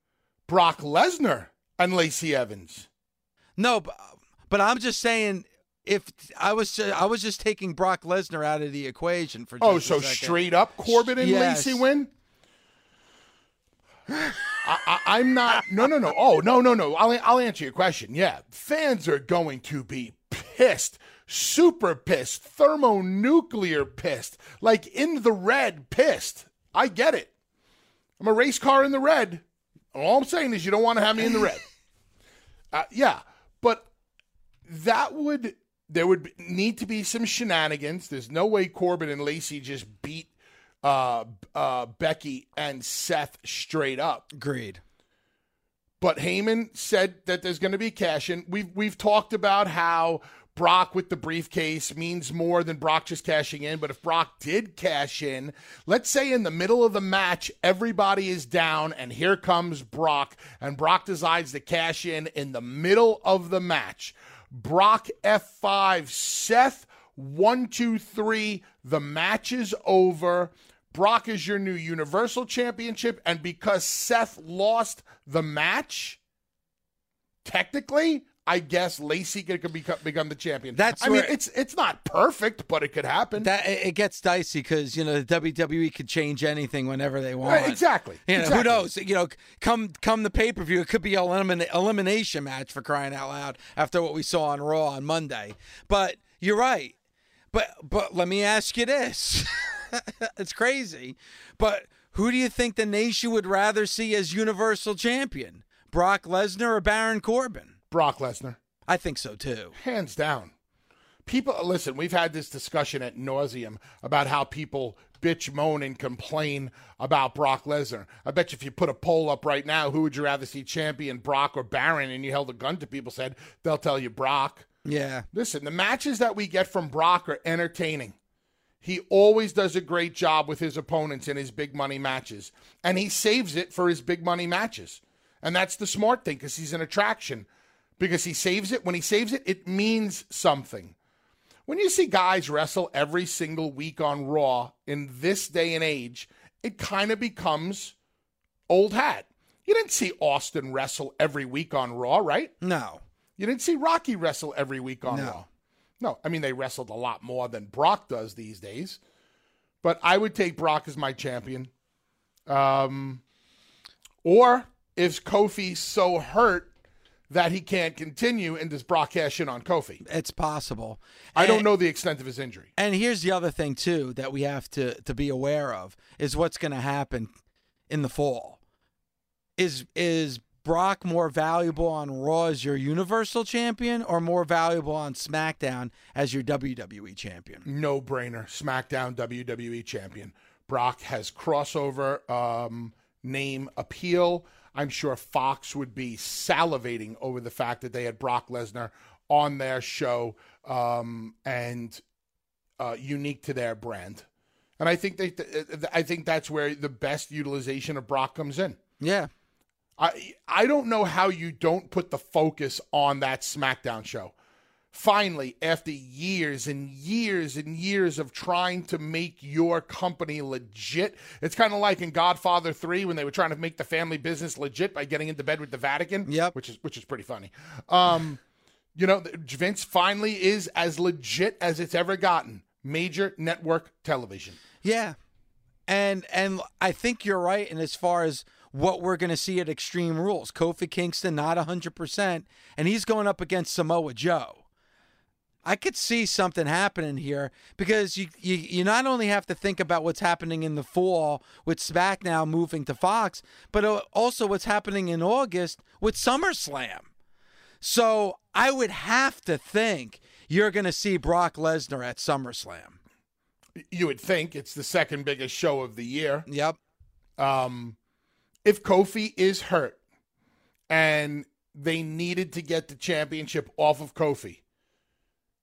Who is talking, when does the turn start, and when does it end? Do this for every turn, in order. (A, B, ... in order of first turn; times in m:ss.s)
0:00.5-0:02.9 A
0:03.6-0:11.9 B
0:09.6-0:12.1 A
0:14.1-0:14.6 B
0:14.6-0:27.3 A
0:28.2-0:31.6 A
0:32.7-0:33.9 A
0:34.6-0:40.3 A
0:40.8-0:44.2 A
0:44.3-0:44.8 B
0:46.0-1:16.2 A
1:17.4-1:23.5 A
1:20.7-1:21.3 B
1:23.4-1:36.9 B
1:27.4-1:28.8 A
1:37.5-1:47.8 B
1:47.9-1:48.6 A
1:48.9-1:49.8 B
1:49.8-1:50.5 A
1:51.2-2:04.7 A
2:04.8-2:05.2 B
2:05.3-2:08.2 A
2:08.8-2:17.5 A
2:18.0-2:20.9 A
2:21.7-2:27.9 A
2:28.7-2:32.5 A
2:32.6-2:33.0 B
2:33.4-2:35.4 A
2:35.0-2:35.4 B
2:36.0-2:39.0 A
2:39.8-2:41.7 A
2:42.5-2:43.2 A
2:44.2-2:46.7 A
2:47.3-2:50.0 A
2:50.0-2:51.7 B
2:51.3-2:52.7 A
2:52.8-2:57.3 B
2:57.9-2:58.6 B
2:59.6-3:07.6 B
3:07.6-3:22.0 A
3:22.8-3:24.3 A
3:24.8-3:28.8 A
3:29.0-3:29.3 B
3:30.0-3:34.3 A
3:34.9-3:48.4 A
3:46.3-3:46.5 B
3:48.9-3:54.6 A
3:54.8-3:55.2 B
3:55.9-4:04.6 B
4:05.6-4:17.1 B
4:17.8-4:23.0 B
4:23.8-4:26.4 A
4:26.5-4:26.8 B
4:27.4-4:28.0 A
4:28.6-4:30.0 A
4:30.9-4:34.6 A